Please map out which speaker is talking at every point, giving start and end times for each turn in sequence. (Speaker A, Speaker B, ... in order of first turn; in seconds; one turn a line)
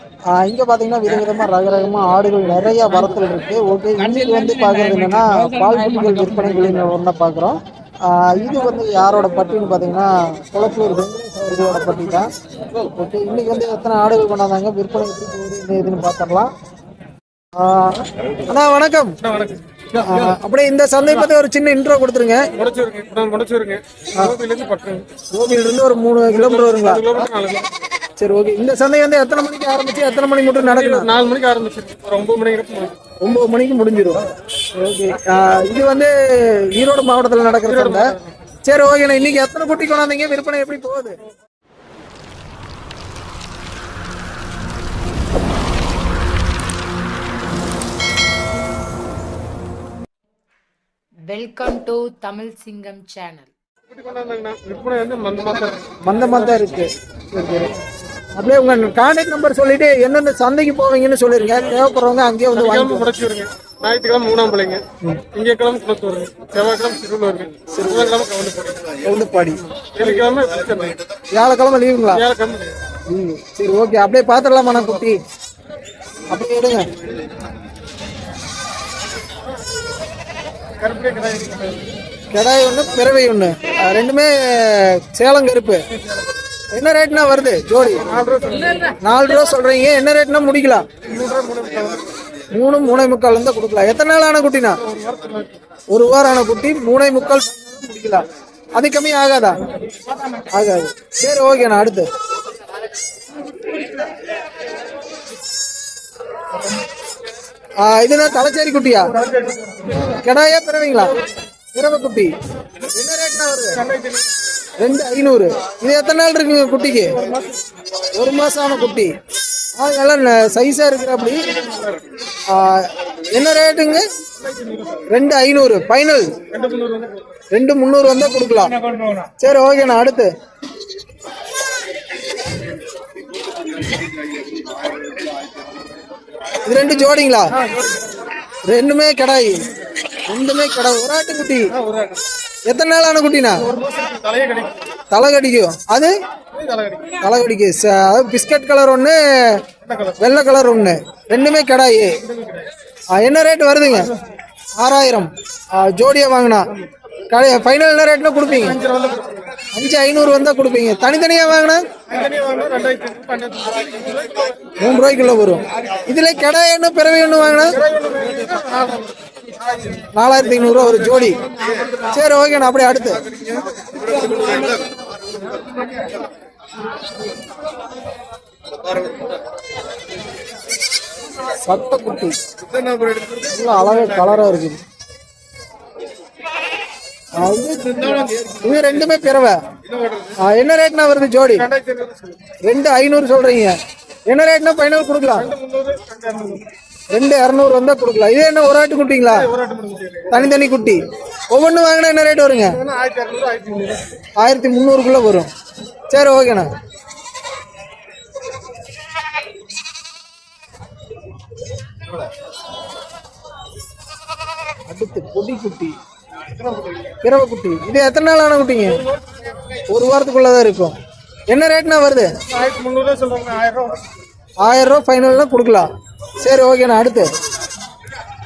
Speaker A: 0.3-16.5
Speaker A: 17.6-19.2
Speaker B: 19.2-19.6
Speaker A: 19.9-22.5
Speaker B: 22.6-25.1
Speaker A: 25.3-27.3
Speaker B: 26.3-27.8
Speaker A: 28.2-31.1
Speaker B: 30.6-33.0
Speaker A: 33.2-38.1
Speaker B: 37.6-38.4
Speaker A: 38.6-41.2
Speaker C: 51.2-53.5
Speaker B: 53.9-56.0
Speaker A: 56.0-57.7
Speaker A: 58.3-63.1
Speaker B: 62.5-69.0
Speaker A: 67.7-68.1
Speaker A: 69.0-69.6
Speaker B: 69.9-71.0
Speaker A: 71.3-72.2
Speaker B: 72.1-72.8
Speaker A: 73.1-75.2
Speaker A: 76.3-76.9
Speaker B: 80.8-81.9
Speaker A: 82.3-85.8
Speaker A: 86.7-88.1
Speaker B: 88.0-88.9
Speaker A: 88.8-90.9
Speaker B: 91.0-92.2
Speaker A: 92.5-94.8
Speaker B: 94.7-95.6
Speaker A: 95.9-99.7
Speaker A: 100.4-102.1
Speaker A: 107.8-109.1
Speaker B: 109.1-110.1
Speaker A: 110.0-111.2
Speaker A: 111.7-112.3
Speaker A: 112.8-113.8
Speaker B: 113.7-114.5
Speaker A: 114.8-117.2
Speaker B: 117.0-117.7
Speaker A: 118.1-119.1
Speaker A: 119.8-121.5
Speaker B: 121.4-122.1
Speaker A: 122.5-124.0
Speaker B: 124.4-125.0
Speaker A: 125.1-126.4
Speaker B: 126.5-127.4
Speaker A: 127.5-130.3
Speaker A: 136.6-137.5
Speaker B: 137.5-138.3
Speaker A: 138.7-139.7
Speaker A: 140.2-141.7
Speaker B: 141.7-142.2
Speaker A: 142.7-143.7
Speaker B: 143.6-145.0
Speaker A: 145.1-146.1
Speaker B: 146.5-147.2
Speaker A: 147.2-149.6
Speaker B: 149.8-150.2
Speaker A: 150.2-152.2
Speaker B: 152.2-152.7
Speaker A: 153.1-154.1
Speaker A: 154.8-156.7
Speaker A: 157.3-158.8
Speaker B: 158.5-159.6
Speaker A: 159.7-161.8
Speaker B: 162.1-164.7
Speaker A: 164.8-167.8
Speaker B: 167.6-170.0
Speaker A: 170.1-171.4
Speaker A: 172.0-173.2
Speaker A: 181.6-182.4
Speaker A: 183.3-184.8
Speaker A: 187.3-189.6
Speaker B: 189.9-190.3
Speaker A: 190.4-191.7
Speaker B: 191.5-192.4
Speaker A: 192.6-195.5
Speaker B: 195.3-196.7
Speaker A: 197.1-199.5
Speaker B: 199.3-200.5
Speaker A: 200.3-202.8
Speaker B: 202.7-204.2
Speaker A: 204.4-205.5
Speaker A: 206.1-206.7
Speaker A: 214.9-215.9
Speaker B: 216.6-217.1
Speaker A: 217.2-219.0
Speaker A: 219.9-220.9
Speaker A: 221.5-222.3
Speaker B: 222.5-224.0
Speaker A: 224.6-227.3